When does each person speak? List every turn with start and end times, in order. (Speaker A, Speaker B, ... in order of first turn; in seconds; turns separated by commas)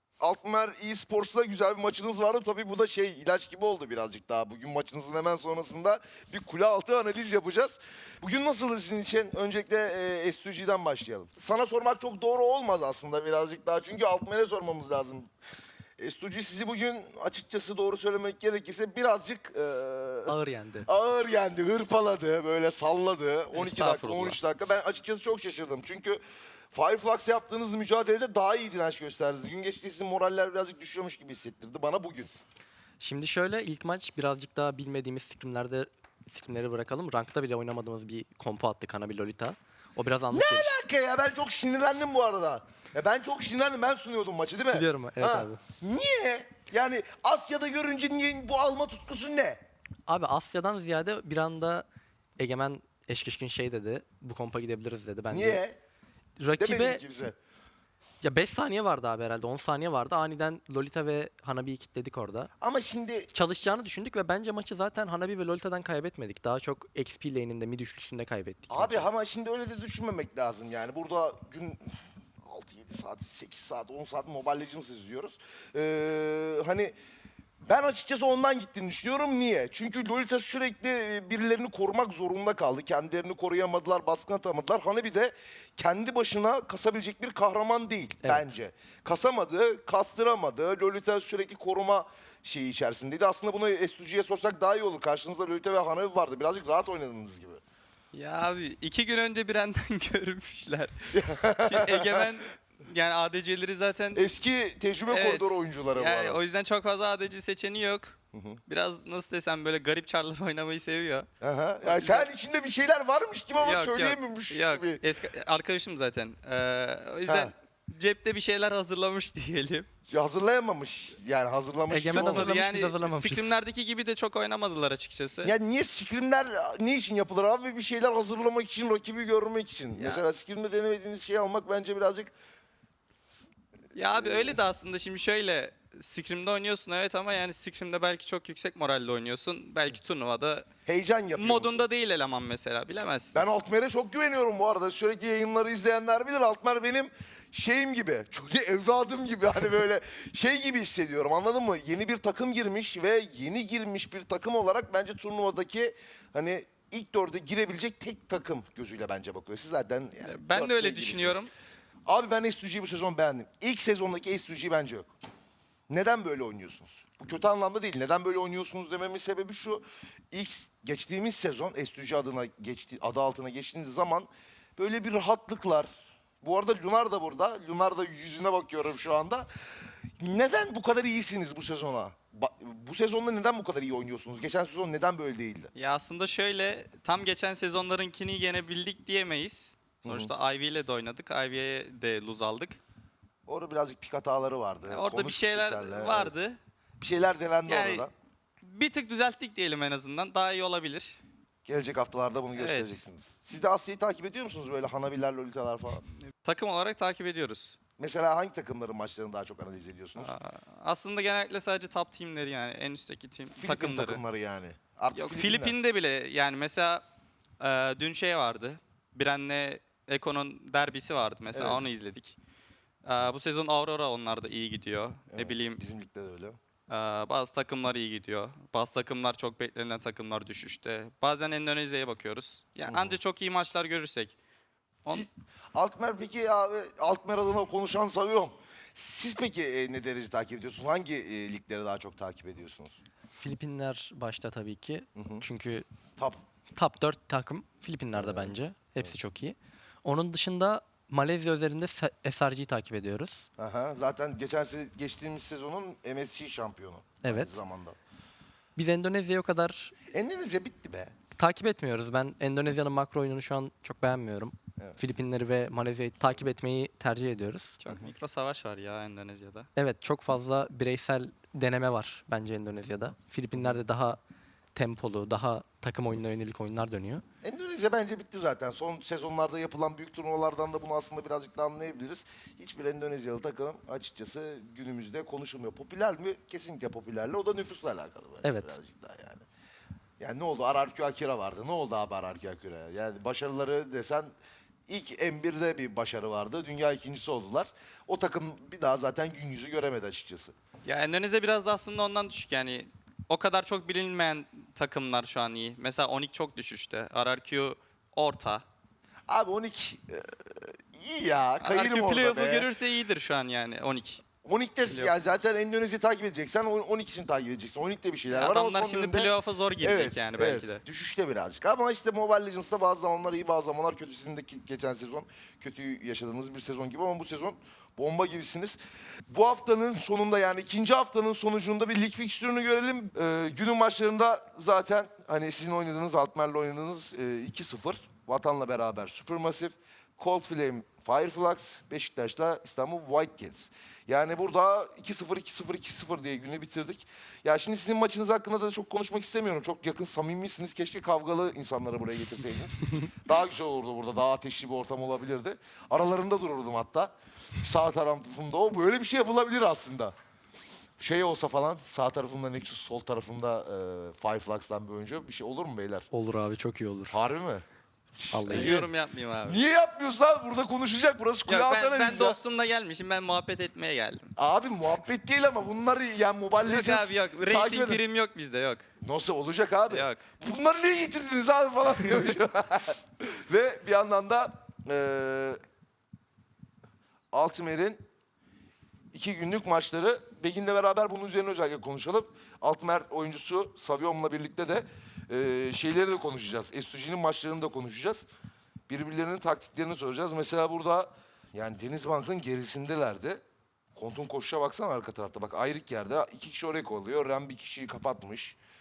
Speaker A: 0.2-15.3, Speaker A: 16.0-26.2, Speaker B: 20.3-20.9, Speaker C: 23.5-24.4, Speaker A: 26.7-32.3, Speaker B: 33.0-40.8, Speaker A: 40.3-49.6, Speaker B: 44.7-45.6, Speaker B: 50.1-51.8, Speaker B: 52.4-55.6, Speaker A: 55.3-55.8, Speaker B: 56.4-57.0, Speaker A: 56.6-57.4, Speaker B: 58.2-62.5, Speaker A: 62.6-63.3, Speaker B: 63.3-69.1, Speaker A: 68.7-76.9, Speaker A: 77.7-97.6, Speaker B: 88.2-88.5, Speaker C: 98.1-104.3, Speaker A: 101.1-102.3, Speaker A: 104.2-106.4, Speaker C: 105.1-111.3, Speaker A: 108.3-108.6, Speaker A: 111.4-115.0, Speaker C: 111.8-112.3, Speaker C: 113.6-119.9, Speaker A: 117.2-117.5, Speaker A: 120.1-122.5, Speaker B: 121.9-123.5, Speaker C: 122.1-125.5, Speaker A: 125.4-132.3, Speaker C: 130.0-130.2, Speaker C: 133.9-140.7, Speaker A: 134.2-134.6, Speaker A: 140.8-141.8, Speaker C: 141.3-143.4, Speaker A: 143.3-161.4, Speaker C: 160.2-161.5, Speaker A: 162.1-165.1, Speaker A: 165.9-175.9, Speaker A: 176.4-185.7, Speaker C: 185.8-192.8, Speaker A: 190.0-190.3, Speaker A: 193.4-196.3, Speaker C: 194.9-196.6, Speaker A: 197.0-198.1, Speaker C: 197.7-198.1, Speaker C: 198.6-201.2, Speaker A: 201.7-206.1, Speaker C: 202.6-203.0, Speaker C: 206.3-207.8, Speaker A: 208.0-210.3, Speaker C: 210.2-214.2, Speaker A: 213.5-215.8, Speaker C: 215.1-217.0, Speaker C: 217.6-222.4, Speaker A: 221.5-221.9, Speaker C: 223.0-225.8, Speaker A: 225.3-226.6, Speaker C: 226.9-234.4, Speaker A: 232.9-233.2, Speaker A: 235.1-243.0, Speaker B: 243.4-245.9, Speaker A: 245.2-245.4, Speaker B: 246.8-253.5, Speaker A: 248.2-249.1, Speaker A: 253.6-258.0, Speaker B: 257.2-257.6, Speaker B: 258.8-259.9, Speaker A: 260.1-261.1, Speaker B: 261.4-267.8, Speaker C: 267.8-269.7, Speaker B: 269.8-274.2, Speaker B: 274.8-277.2, Speaker A: 277.4-289.4, Speaker B: 288.4-288.8, Speaker A: 290.2-294.3, Speaker A: 294.9-300.6, Speaker C: 300.8-308.6, Speaker A: 309.3-312.7, Speaker C: 311.6-314.2, Speaker A: 314.4-360.1, Speaker C: 314.9-315.1, Speaker C: 318.3-320.8, Speaker A: 361.0-366.1, Speaker B: 366.1-367.1, Speaker A: 367.1-368.9, Speaker B: 368.3-368.8, Speaker C: 368.5-369.6, Speaker A: 369.4-372.4, Speaker C: 371.5-374.3, Speaker A: 374.4-378.0, Speaker C: 376.6-378.9, Speaker A: 379.0-385.6, Speaker C: 379.9-380.2, Speaker A: 387.3-388.0, Speaker A: 389.1-398.3, Speaker A: 398.9-403.4, Speaker A: 403.9-408.6